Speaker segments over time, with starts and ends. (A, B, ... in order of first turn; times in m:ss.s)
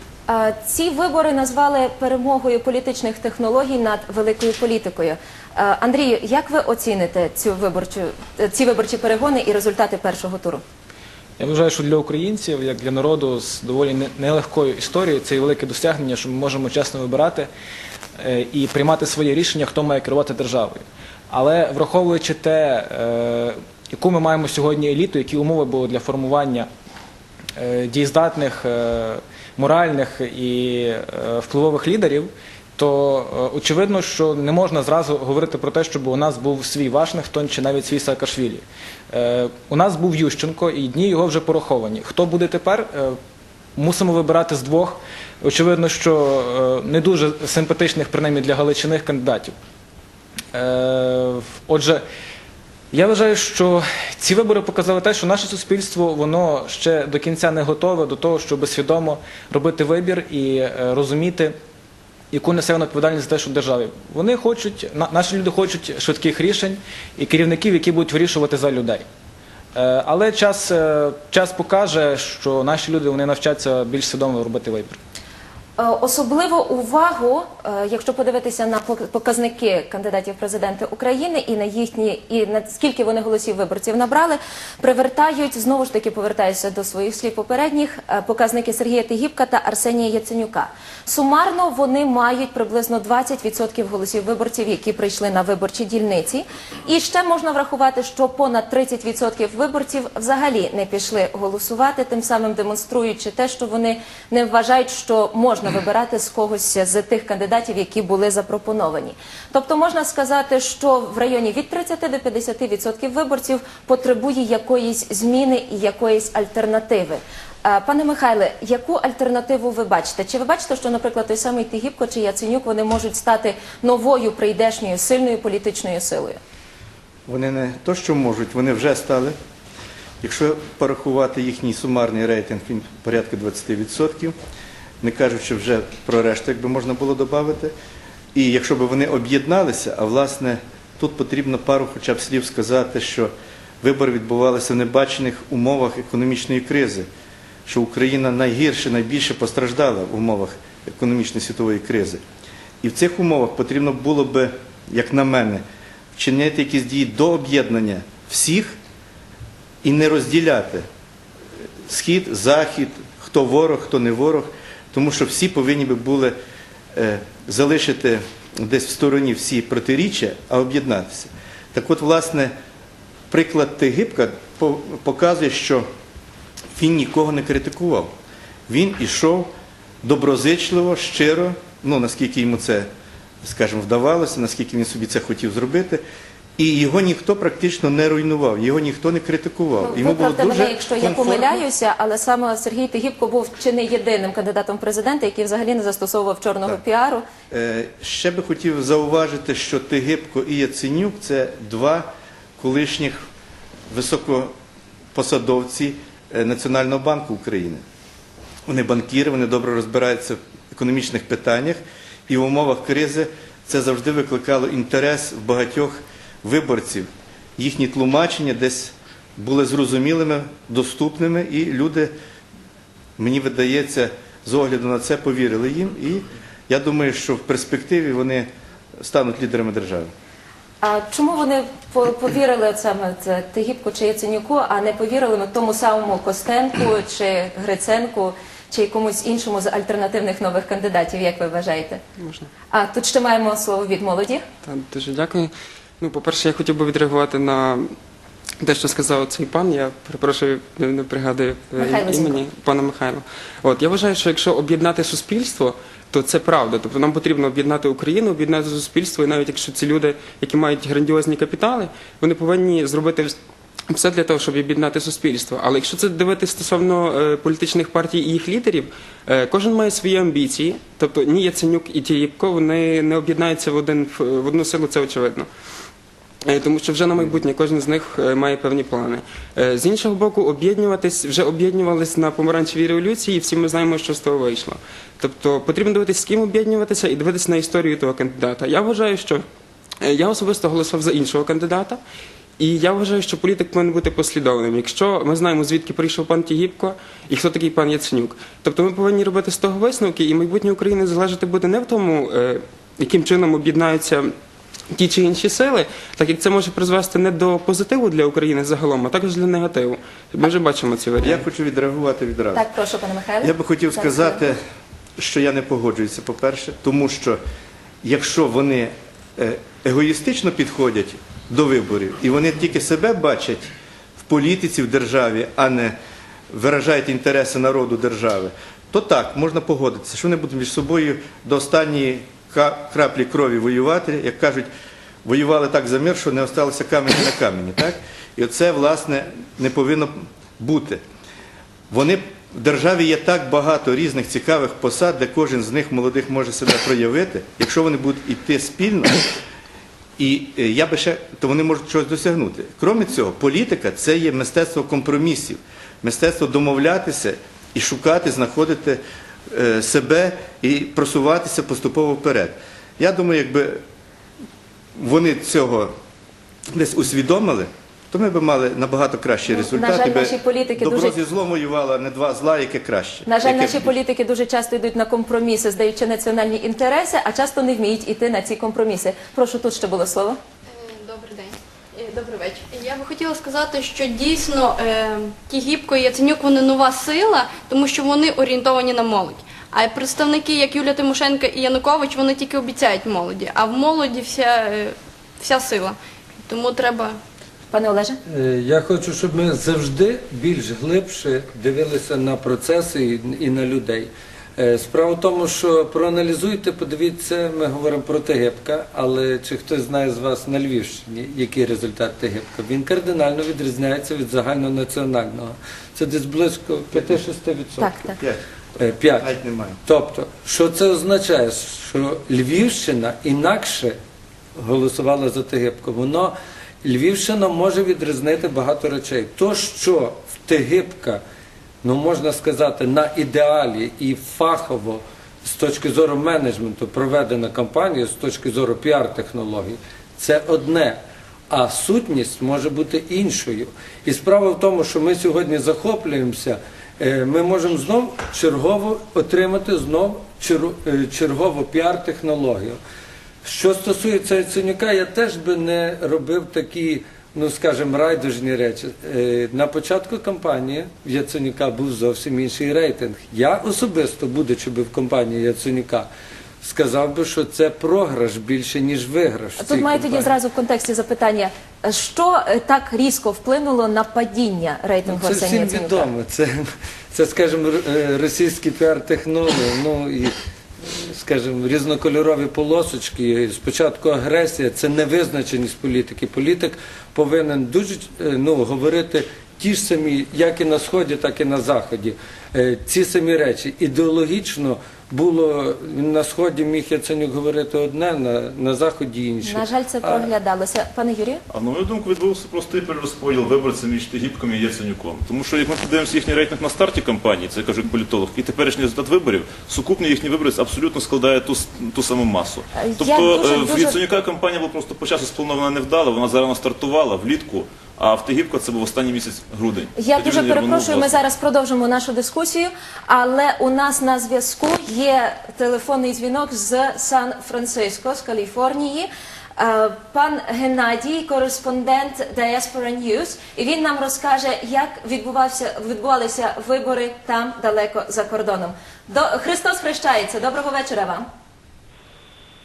0:00.3-0:10.6 A
0:11.4-0:17.5 B
0:18.2-0:26.7 B
0:27.6-0:43.2 B
0:43.8-0:49.5 B
0:50.5-0:52.0 B
0:52.9-1:01.5 B
1:02.3-1:09.0 B
1:09.8-1:15.0 B
1:15.8-2:06.4 A
2:07.3-2:09.4 C
2:10.2-2:14.4 C
2:15.0-2:17.7 C
2:18.3-2:23.3 C
2:23.8-2:27.1 C
2:27.7-2:32.2 C
2:32.8-2:35.6 C
2:36.2-2:38.8 C
2:39.8-2:40.8 C
2:41.9-2:46.4 C
2:47.0-2:52.5 C
2:53.3-2:55.9 C
2:56.7-2:58.1 C
2:58.7-2:59.5 C
3:00.0-3:02.9 C
3:03.4-3:06.0 C
3:06.6-3:11.6 C
3:09.8-3:17.2 A
3:17.5-3:22.1 C
3:22.6-3:23.2 C
3:23.9-3:24.5 C
3:25.2-3:27.8 C
3:28.7-3:42.1 C
3:43.2-3:48.5 C
3:49.0-3:50.1 C
3:50.8-4:02.0 A
4:02.2-4:02.5 D
4:02.7-4:04.4 A
4:04.6-4:07.9 D
4:08.6-4:23.4 D
4:11.8-4:12.4 A
4:23.9-4:35.5 D
4:36.4-4:49.4 D
4:50.0-4:52.0 D
4:52.6-5:04.3 D
5:04.9-5:11.4 D
5:11.2-5:12.7 C
5:12.5-5:14.5 A
5:13.4-5:14.6 C
5:15.2-5:17.4 C
5:18.0-5:23.7 C
5:24.2-5:26.0 C
5:26.5-5:34.7 C
5:35.2-5:41.0 C
5:41.9-5:49.2 C
5:50.2-6:03.8 C
6:05.0-6:05.9 C
6:06.7-6:13.9 C
6:09.5-6:11.2 A
6:13.3-6:20.4 A
6:20.7-6:37.2 E
6:37.7-6:38.2 A
6:38.3-6:58.0 F
6:57.8-6:58.2 A
6:58.8-6:59.3 F
6:59.2-6:59.8 C
6:59.8-7:04.0 F
7:04.6-7:11.2 F
7:11.8-7:32.8 F
7:33.4-7:46.1 F
7:46.6-7:50.3 F
7:49.6-7:56.1 A
7:55.1-8:20.3 F
8:19.4-8:21.4 A
8:21.5-8:41.2 G
8:32.8-8:34.0 A
8:40.0-9:01.2 A